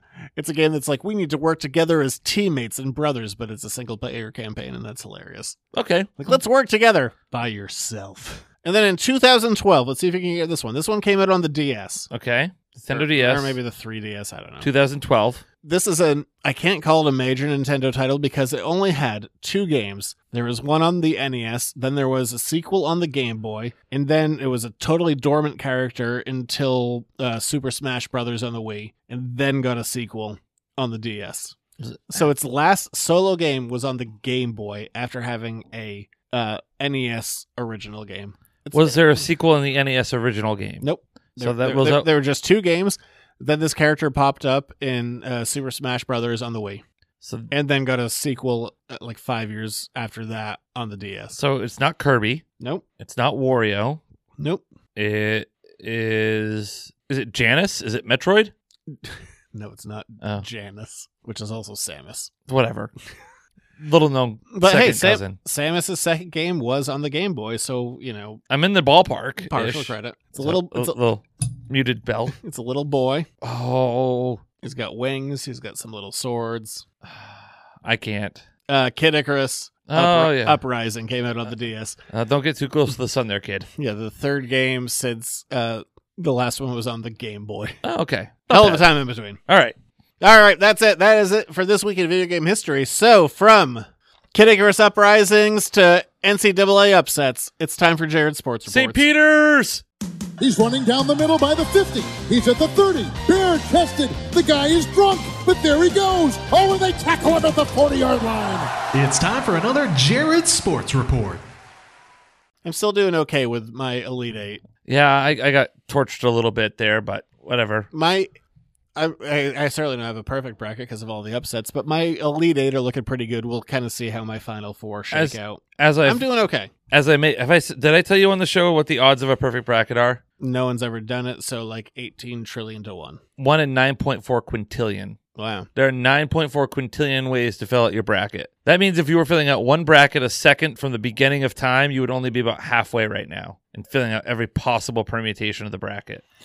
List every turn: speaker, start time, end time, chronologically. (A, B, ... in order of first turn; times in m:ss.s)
0:00.4-0:05.6 A
0:05.7-0:06.4 B
0:06.2-0:12.1 A
0:12.1-0:13.6 B
0:12.9-0:14.7 A
0:14.6-0:15.4 B
0:15.6-0:31.6 A
0:31.8-0:32.2 B
0:32.1-0:39.1 A
0:38.7-0:40.8 B
0:40.8-0:46.8 A
0:41.4-0:42.1 B
0:47.2-0:47.5 B
0:47.5-0:51.4 A
0:51.4-0:52.4 B
0:53.0-0:54.0 B
0:55.0-0:58.5 B
0:58.9-1:02.3 A
1:02.5-1:02.9 B
1:03.8-1:05.4 B
1:04.5-1:08.4 A
1:08.5-1:12.4 B
1:09.4-1:11.0 A
1:12.4-1:13.3 A
1:13.4-1:14.4 B
1:14.6-1:16.8 A
1:17.0-1:18.4 B
1:18.7-1:22.0 A
1:19.9-1:20.6 B
1:22.1-1:23.7 B
1:23.8-1:27.8 A
1:27.8-1:28.9 B
1:28.5-1:29.4 A
1:29.5-1:29.8 B
1:30.2-1:39.0 A
1:38.7-1:39.8 B
1:40.4-1:48.7 C
1:48.9-1:51.4 D
1:52.6-1:54.6 A
1:54.8-1:57.9 B
1:57.9-1:58.3 A
1:59.0-2:06.7 A
2:05.1-2:06.3 B
2:06.9-2:10.2 B
2:10.4-2:13.2 A
2:13.4-2:15.2 B
2:15.4-2:15.7 A
2:15.7-2:26.2 B